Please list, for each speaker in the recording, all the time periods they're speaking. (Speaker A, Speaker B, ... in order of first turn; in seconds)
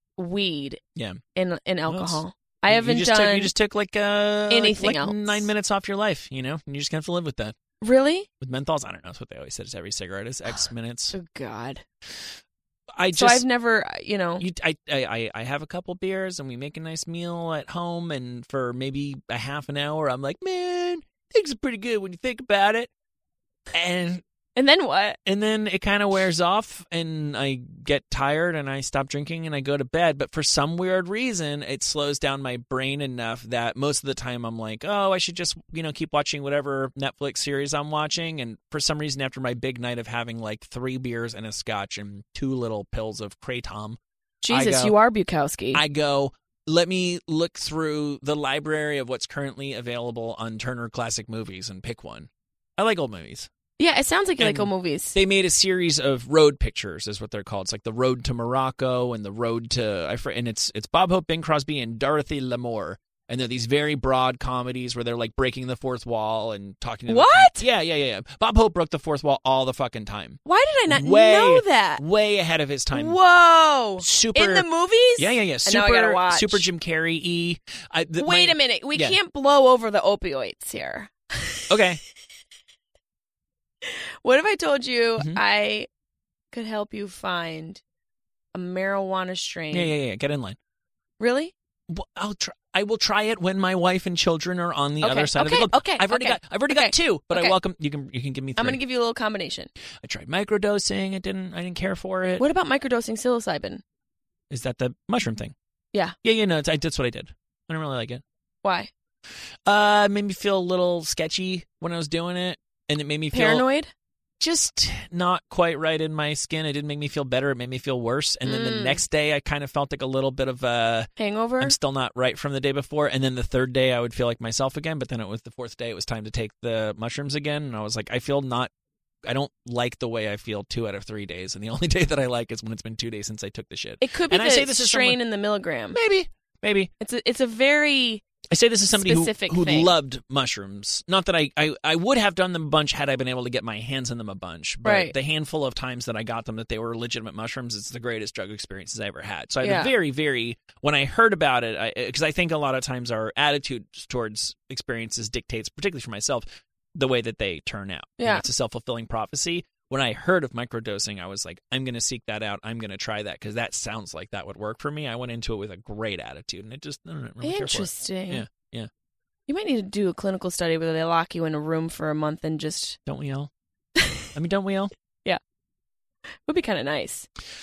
Speaker A: 0.2-0.8, 1.3-3.5, 4.5-5.5, 7.8-8.3, 11.1-11.8, 13.1-14.4, 24.6-25.2, 44.4-45.8, 53.8-55.1, 67.1-67.7, 70.4-72.0, 72.9-76.6, 78.2-81.7, 83.8-85.9, 86.5-87.8, 88.5-89.9, 91.2-91.5, 95.0-97.5, 98.5-99.7, 102.4-103.8, 108.6-108.9, 113.3-113.9, 118.4-119.0, 121.2-121.8, 134.0-136.0, 137.0-138.2, 138.9-139.9, 144.8-145.1, 149.6-149.9, 158.2-158.4, 167.4-168.4, 169.5-173.0, 174.0-174.3, 176.4-177.3
Speaker B: 0.9-1.2, 1.9-7.5, 8.4-11.2, 13.0-13.4, 14.4-22.9, 23.7-24.2, 25.2-44.9, 45.7-53.5, 54.4-73.2, 74.0-79.2, 81.7-82.0, 89.7-90.6, 91.9-98.8, 100.0-102.4, 104.5-105.5, 106.2-108.2, 109.7-113.6, 114.4-121.1, 121.6-128.7, 129.2-135.2, 135.9-136.9, 138.5-168.9, 173.1-173.5, 174.3-174.9